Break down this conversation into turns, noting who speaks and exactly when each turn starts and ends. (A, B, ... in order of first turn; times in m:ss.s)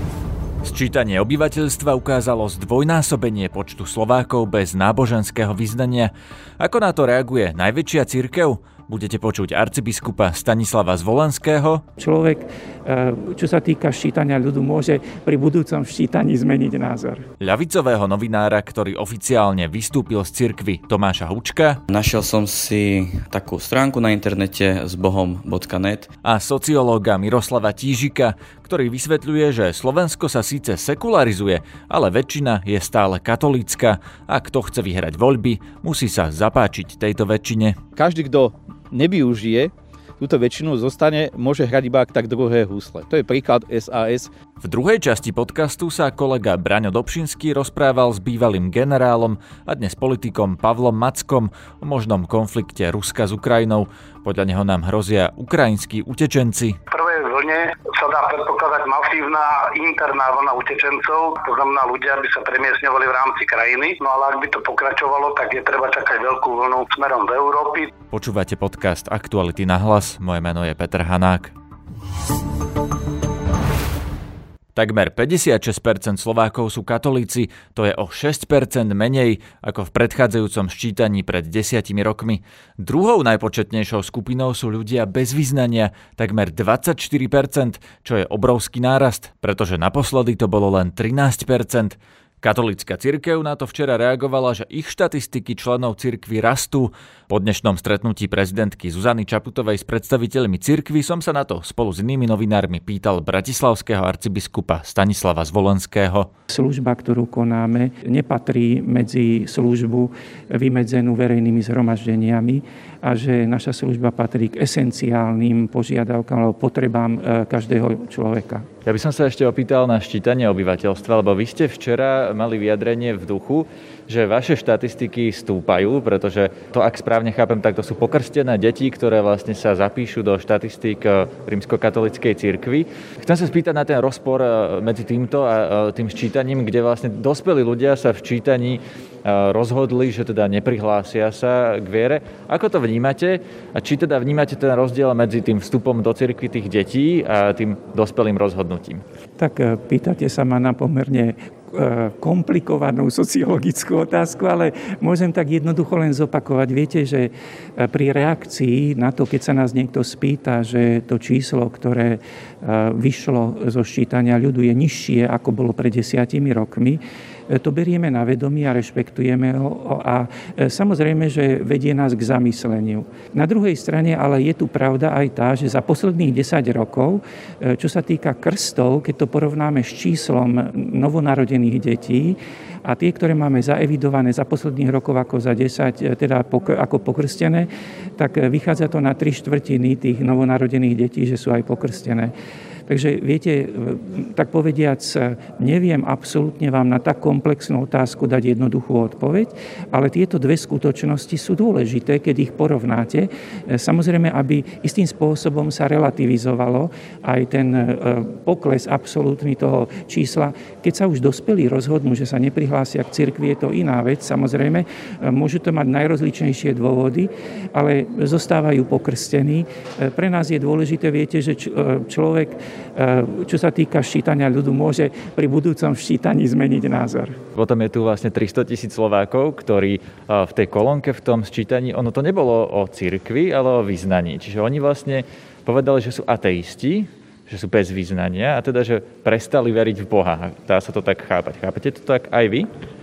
0:00.6-0:11.8 A
0:12.0-0:17.2 B
0:17.4-0:21.8 A
0:21.9-0:26.1 C
0:26.2-0:37.8 A
0:38.0-0:44.3 D
0:44.6-0:56.8 A
0:56.9-1:07.9 E
1:08.1-1:11.5 A
1:14.8-1:46.3 A
1:46.5-1:58.7 B
1:58.8-2:29.0 A
2:29.4-3:12.3 B
3:12.9-3:47.4 B
3:47.6-4:02.7 A